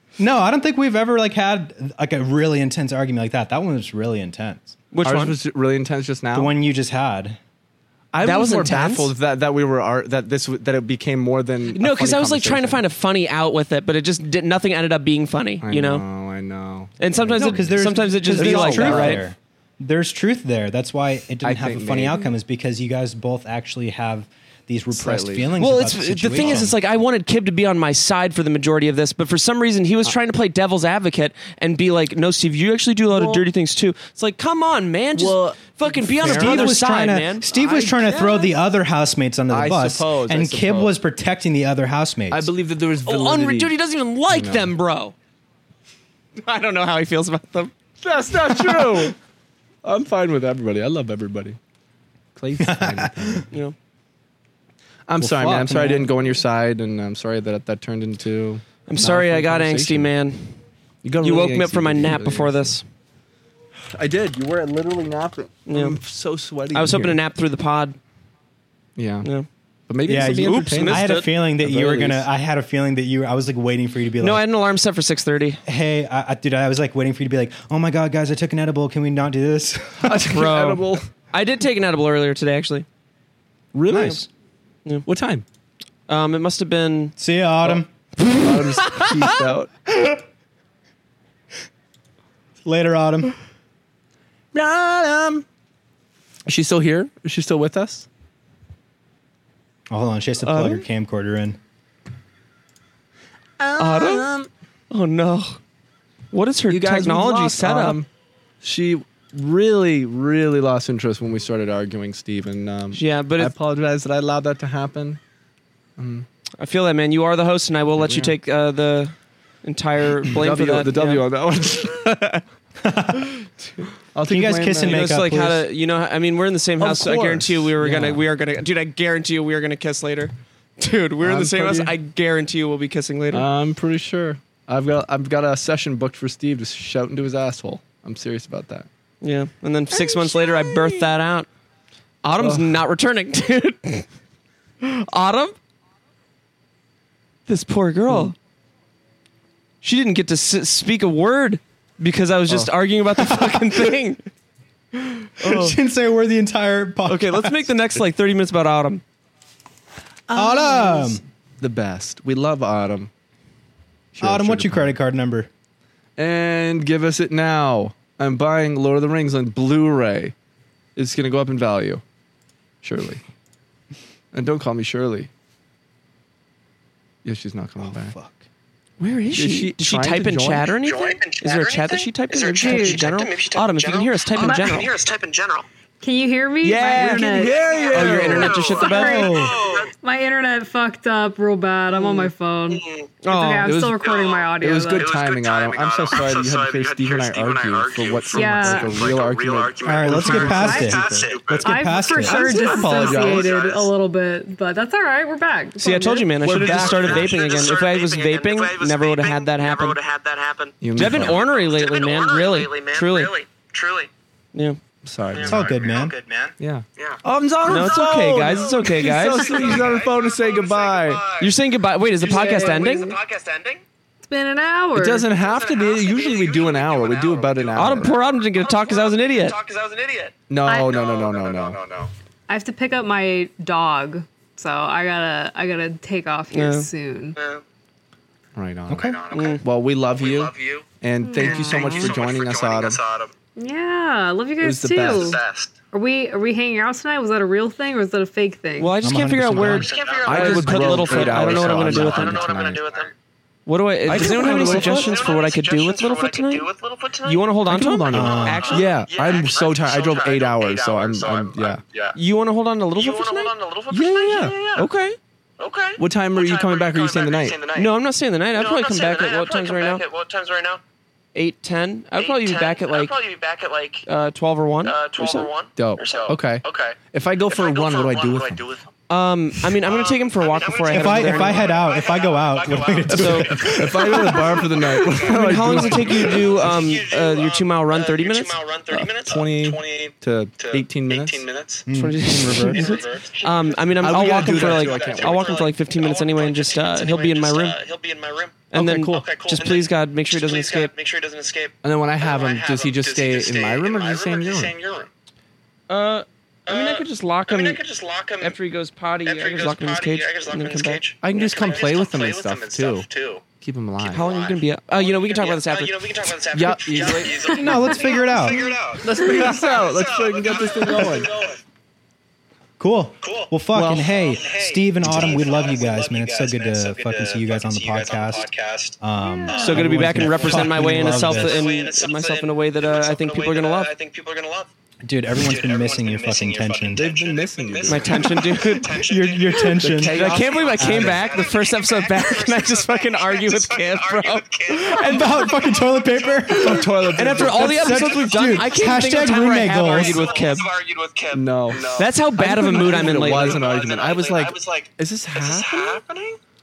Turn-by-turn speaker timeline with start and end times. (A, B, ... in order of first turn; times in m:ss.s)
0:00.2-0:04.8 A
0:04.9-0:05.4 B
0:05.0-0:06.5 C
0:06.3-0:07.4 A
0:08.1-0:12.8 C
0:08.2-0:09.1 B
0:11.7-0:16.0 B
0:15.6-0:19.2 C
0:17.0-0:19.2 B
0:17.4-0:26.8 A
0:21.4-0:22.3 C
0:24.9-0:25.6 C
0:25.6-0:38.5 B
0:26.4-0:26.7 C
0:33.1-0:33.4 C
0:35.2-0:36.7 C
0:36.2-0:42.5 A
0:39.5-0:41.0 C
0:42.3-0:43.7 C
0:43.1-0:45.1 B
0:44.3-0:44.7 C
0:46.4-0:47.7 B
0:48.0-0:49.2 C
0:48.4-0:49.1 B
0:49.8-0:51.6 C
0:52.4-0:53.5 C
0:52.6-0:53.4 A
0:55.1-1:00.1 C
0:55.2-0:56.4 A
0:58.9-1:00.6 B
1:01.0-1:02.8 C
1:01.2-1:02.8 B
1:03.9-1:07.2 C
1:05.7-1:06.0 B
1:06.7-1:08.0 B
1:09.0-1:09.3 C
1:09.9-1:12.3 C
1:10.1-1:14.4 A
1:10.3-1:11.3 B
1:14.2-1:15.6 B
1:15.6-1:20.3 A
1:20.0-1:21.1 C
1:20.3-1:22.9 B
1:23.7-1:24.2 C
1:23.9-1:24.3 A
1:25.1-1:25.4 C
1:26.1-1:27.1 B
1:27.2-1:27.9 A
1:28.2-1:29.2 B
1:28.4-1:29.7 C
1:29.9-1:30.2 A
1:32.6-1:33.4 A
1:34.5-1:35.4 C
1:36.5-1:38.1 C
1:39.9-1:41.6 A
1:40.4-1:40.8 B
1:43.6-1:44.5 C
1:43.8-1:44.3 B
1:44.9-1:45.6 B
1:46.3-1:48.0 B
1:46.7-1:48.1 C
1:48.6-1:55.2 C
1:53.0-1:53.5 B
1:56.0-1:56.3 C
1:56.6-2:01.2 B
1:58.0-1:58.4 C
2:00.3-2:02.0 C
2:01.8-2:02.4 B
2:02.8-2:03.4 A
2:04.1-2:05.1 C
2:04.3-2:05.6 A
2:04.8-2:13.5 B
2:06.8-2:08.2 C
2:11.2-2:11.9 C
2:13.3-2:18.9 C
2:19.2-2:21.5 B
2:19.9-2:21.0 C
2:22.2-2:24.0 B
2:22.4-2:22.8 C
2:24.8-2:25.6 B
2:27.5-2:28.4 B
2:29.8-2:34.2 B
2:33.2-2:33.8 A
2:35.2-2:35.8 B
2:35.4-2:37.7 A
2:37.1-2:39.0 B
2:40.3-2:41.2 A
2:40.5-2:41.0 D
2:41.6-2:43.1 C
2:44.1-2:44.9 C
2:44.2-2:45.5 A
2:46.2-2:50.3 C
2:51.0-2:52.0 C
2:52.8-2:53.2 C
2:54.3-2:55.3 C
2:57.2-2:58.2 C
2:57.8-2:58.4 A
2:59.0-3:04.9 B
2:59.3-3:00.7 C
3:00.8-3:05.7 E
3:02.5-3:03.0 D
3:04.4-3:04.8 D
3:06.0-3:15.2 D
3:06.6-3:09.4 B
3:07.1-3:08.9 C
3:07.2-3:09.9 E
3:08.9-3:09.6 A
3:12.1-3:13.1 E
3:13.2-3:13.8 B
3:13.6-3:21.4 C
3:14.0-3:23.9 E
3:18.3-3:19.1 D
3:19.8-3:22.6 A
3:20.3-3:26.5 D
3:22.1-3:23.6 C
3:25.8-3:30.0 B
3:26.4-3:27.4 C
3:26.5-3:34.1 E
3:30.8-3:31.4 C
3:31.0-3:33.3 B
3:35.0-3:35.7 C
3:35.3-3:41.6 E
3:35.4-3:36.4 A
3:36.6-3:41.2 C
3:37.6-3:39.9 B
3:41.4-3:43.1 B
3:42.2-3:43.8 E
3:42.2-3:43.2 D
3:44.2-3:45.3 D
3:45.0-3:48.2 C
3:45.3-3:52.1 E
3:47.8-3:49.6 B
3:50.5-3:51.8 C
3:50.7-3:50.9 D
3:52.5-3:57.4 D
3:56.5-3:56.9 B
3:57.4-3:57.6 E
3:58.6-4:03.0 C
3:58.9-3:59.2 A
3:58.9-4:03.3 E
3:59.3-3:59.6 B
4:01.2-4:02.1 D
4:03.6-4:05.4 D
4:04.6-4:05.4 C
4:05.1-4:05.8 E
4:05.9-4:08.9 D
4:08.8-4:12.5 B
4:09.0-4:09.9 A
4:09.6-4:13.1 E
4:10.2-4:12.8 C
4:13.7-4:16.7 B
4:14.1-4:15.2 C
4:14.1-4:17.4 E
4:17.2-4:19.0 B
4:17.7-4:21.8 C
4:18.1-4:22.2 E
4:18.1-4:18.7 A
4:22.2-4:23.5 B
4:23.0-4:24.9 E
4:23.9-4:24.6 C
4:24.8-4:25.2 B
4:25.6-4:27.9 E
4:26.0-4:27.6 C
4:27.8-4:30.0 B
4:28.6-4:30.8 E
4:31.4-4:33.2 B
4:32.2-4:34.1 E
4:34.1-4:35.5 B
4:34.8-4:38.9 E
4:35.8-4:38.6 C
4:39.1-4:41.7 B
4:39.8-4:51.9 E
4:40.9-4:44.6 A
4:43.1-4:43.5 B
4:43.2-4:46.7 C
4:45.0-4:49.1 B
4:49.2-4:51.5 C
4:51.9-4:53.0 A
4:51.9-4:57.8 B
4:52.5-5:05.1 E
4:54.0-4:55.6 C
4:58.7-5:00.9 B
4:58.7-4:59.2 C
5:01.8-5:04.8 C
5:05.9-5:07.8 B
5:06.7-5:08.6 E
5:08.4-5:11.3 B
5:09.2-5:13.4 E
5:11.2-5:13.0 C
5:13.6-5:14.3 C
5:14.0-5:21.6 E
5:14.1-5:16.1 B
5:16.5-5:17.5 C
5:17.5-5:18.8 A
5:19.0-5:21.4 C
5:22.8-5:31.7 A
5:23.2-5:34.7 E
5:23.7-5:24.2 C
5:25.0-5:25.4 C
5:29.3-5:29.6 D
5:29.6-5:33.9 B
5:29.8-5:31.2 C
5:35.0-5:37.1 A
5:35.3-5:46.9 E
5:37.0-5:38.4 C
5:37.8-5:39.0 B
5:38.9-5:40.2 A
5:39.8-5:41.5 C
5:40.0-5:45.5 B
5:44.7-5:50.4 A
5:46.5-5:47.9 C
5:46.7-5:50.7 B
5:47.6-5:52.1 E
5:51.3-5:56.0 C
5:52.0-5:53.7 B
5:52.7-5:56.4 E